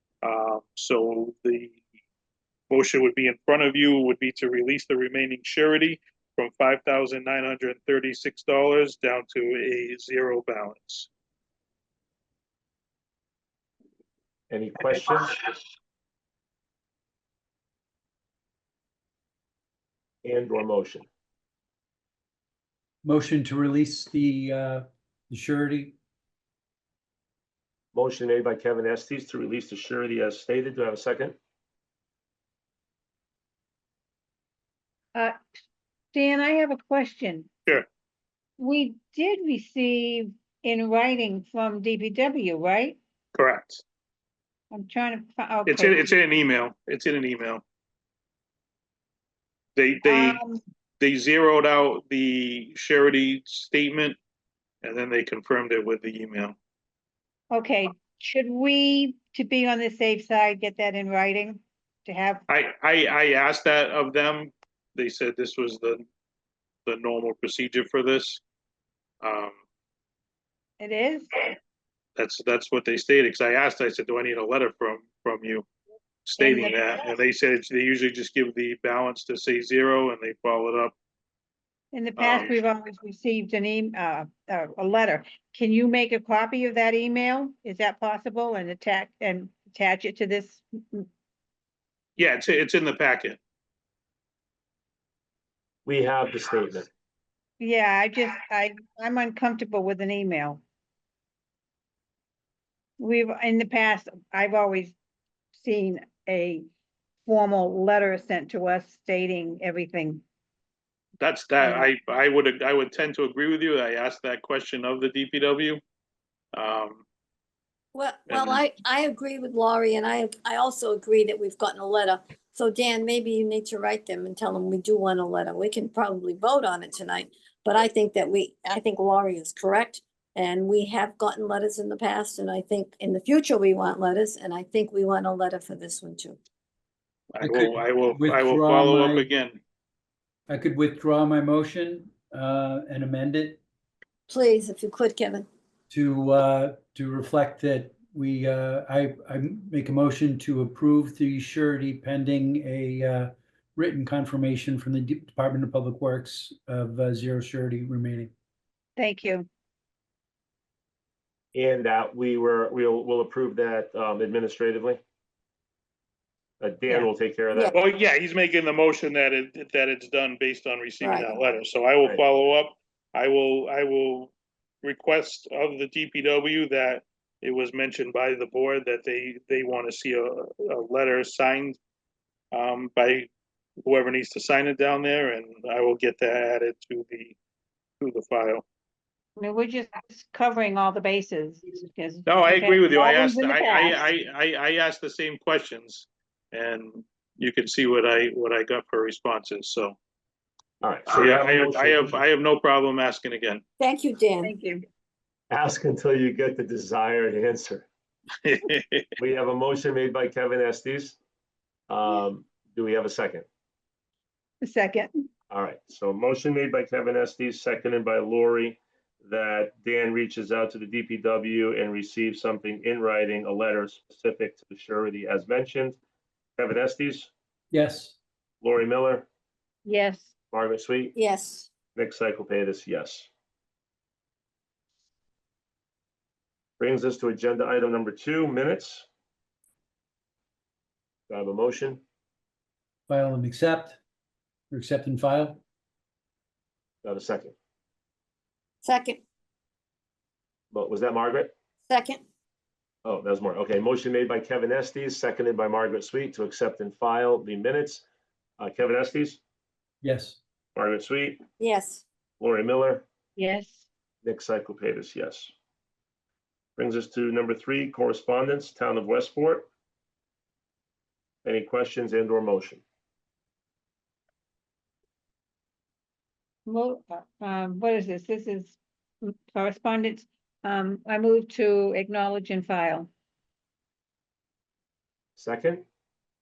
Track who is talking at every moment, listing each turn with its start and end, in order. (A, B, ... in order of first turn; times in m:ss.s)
0:00.2-0:01.8 A
0:02.7-0:11.1 A
0:14.5-0:15.4 B
0:20.2-0:21.1 B
0:23.0-0:25.9 C
0:27.9-0:31.4 B
0:35.1-0:35.4 D
0:36.1-0:37.5 D
0:38.6-0:43.0 D
0:43.3-0:43.8 A
0:44.7-0:46.2 D
0:45.6-0:47.6 A
0:49.8-0:50.4 A
0:50.0-0:50.6 D
0:51.0-0:54.2 A
0:54.8-0:56.6 A
0:57.5-1:02.4 D
1:02.5-1:06.0 A
1:06.8-1:08.4 A
1:09.2-1:09.6 A
1:10.8-1:11.4 D
1:12.2-1:15.7 A
1:16.2-1:20.9 A
1:16.4-1:16.8 D
1:21.9-1:31.1 D
1:22.2-1:22.5 A
1:32.2-1:33.4 A
1:35.8-1:36.9 B
1:37.6-1:40.6 D
1:43.0-1:44.9 D
1:45.5-1:46.6 D
1:47.2-1:50.2 D
1:51.2-1:55.8 A
1:51.6-1:51.9 D
1:56.5-1:57.0 A
1:57.9-2:16.4 E
1:58.3-1:58.6 A
2:17.3-2:19.6 A
2:17.4-2:19.3 C
2:20.5-2:23.6 C
2:24.3-2:25.5 E
2:25.9-2:38.3 C
2:39.0-2:39.5 D
2:41.5-2:45.0 B
2:46.6-2:47.7 B
2:47.5-2:47.8 E
2:47.7-2:54.3 A
2:51.0-2:51.3 E
2:54.8-3:01.8 A
3:02.5-3:03.3 A
3:03.8-3:07.4 A
3:08.0-3:08.6 A
3:09.4-3:14.0 D
3:12.2-3:20.0 A
3:20.8-3:22.2 B
3:21.1-3:23.6 A
3:23.8-3:24.5 E
3:24.4-3:24.8 D
3:25.5-3:27.9 B
3:28.4-3:29.1 A
3:29.2-3:31.2 B
3:31.9-3:33.4 B
3:34.6-3:35.1 D
3:35.5-3:46.0 B
3:46.6-3:47.3 B
3:47.7-3:48.2 C
3:48.6-3:49.3 B
3:49.8-3:50.3 D
3:50.5-3:51.1 B
3:51.1-3:51.7 E
3:51.9-3:53.3 B
3:56.8-3:59.1 B
4:01.3-4:02.0 B
4:03.1-4:04.0 C
4:04.7-4:05.6 C
4:07.0-4:07.5 B
4:08.8-4:09.2 E
4:10.7-4:11.5 B
4:11.9-4:12.2 E
4:13.0-4:18.0 B
4:18.6-4:19.4 B
4:20.0-4:20.4 C
4:20.7-4:21.4 B
4:21.6-4:22.0 E
4:22.4-4:23.0 B
4:23.4-4:23.8 D
4:24.2-4:25.5 B
4:26.8-4:29.7 B
4:31.4-4:32.8 B
4:36.6-4:43.1 D
4:45.4-4:45.8 B